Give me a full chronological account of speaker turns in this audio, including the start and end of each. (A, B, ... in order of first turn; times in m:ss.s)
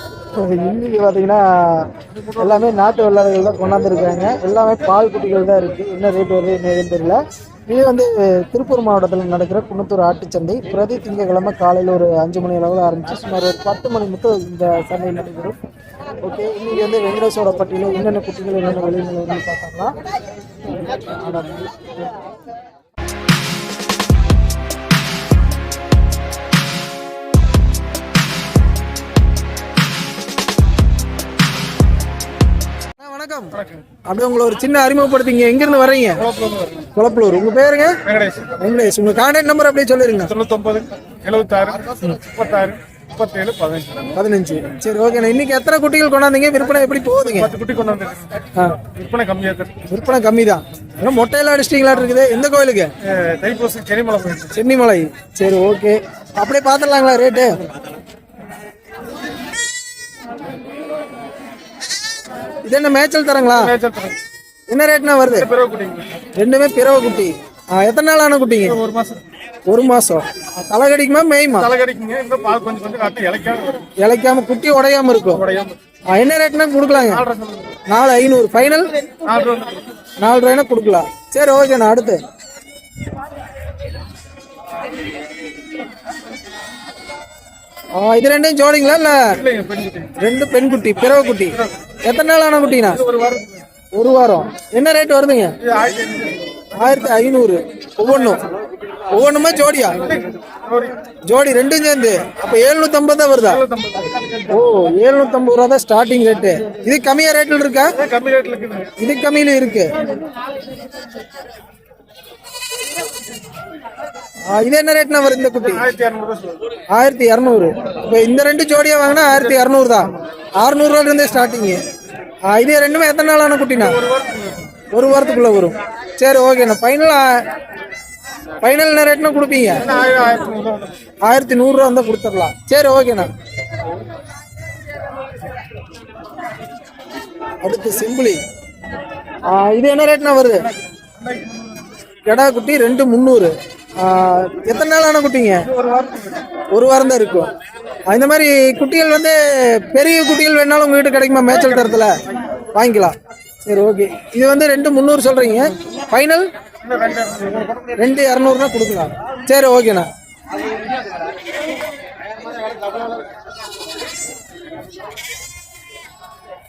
0:00.3-0:15.6 A
0:16.2-0:20.0 A
0:21.1-0:21.9 A
0:33.0-0:36.2 A
0:33.5-0:33.8 B
0:36.2-0:36.9 B
0:36.9-0:38.0 A
0:38.0-0:38.6 B
0:38.5-0:40.3 A
0:40.2-0:44.1 B
0:44.1-0:47.5 A
0:47.3-0:49.8 B
0:48.5-0:48.8 A
0:49.8-0:52.9 A
0:53.0-0:54.6 B
0:54.5-0:57.6 A
1:02.6-1:03.7 A
1:03.5-1:04.2 B
1:04.7-1:05.5 A
1:05.3-1:06.2 B
1:06.4-1:08.8 A
1:08.6-1:09.3 B
1:09.7-1:11.7 A
1:11.6-1:13.9 B
1:14.0-1:15.4 A
1:15.3-1:15.8 B
1:16.1-1:17.2 A
1:17.0-1:17.8 B
1:17.9-1:18.9 A
1:19.2-1:19.9 B
1:20.2-1:22.2 A
1:28.0-1:29.4 A
1:29.3-1:30.2 B
1:30.2-1:33.0 A
1:32.9-1:33.7 B
1:33.9-1:35.6 A
1:35.6-1:36.9 B
1:36.8-1:38.4 A
1:39.1-1:40.1 A
1:40.0-1:41.0 B
1:41.3-1:43.6 A
1:43.4-1:44.7 B
1:44.5-1:48.0 A
1:48.0-1:49.0 B
1:49.0-1:50.0 A
1:54.5-1:55.8 A
1:55.6-1:56.7 B
1:56.9-2:01.8 A
1:59.5-2:00.2 B
2:02.5-2:04.0 A
2:03.8-2:04.8 B
2:04.9-2:07.5 A
2:08.6-2:09.9 A
2:09.8-2:11.0 B
2:11.2-2:13.3 A
2:17.6-2:18.4 A
2:19.4-2:20.7 A
2:21.2-2:21.7 B
2:22.3-2:25.7 A
2:25.7-2:26.6 B
2:26.7-2:27.5 A
2:28.1-2:32.2 A
2:31.5-2:32.0 B
2:32.7-2:36.5 A
2:36.8-2:38.0 B
2:38.0-2:40.1 A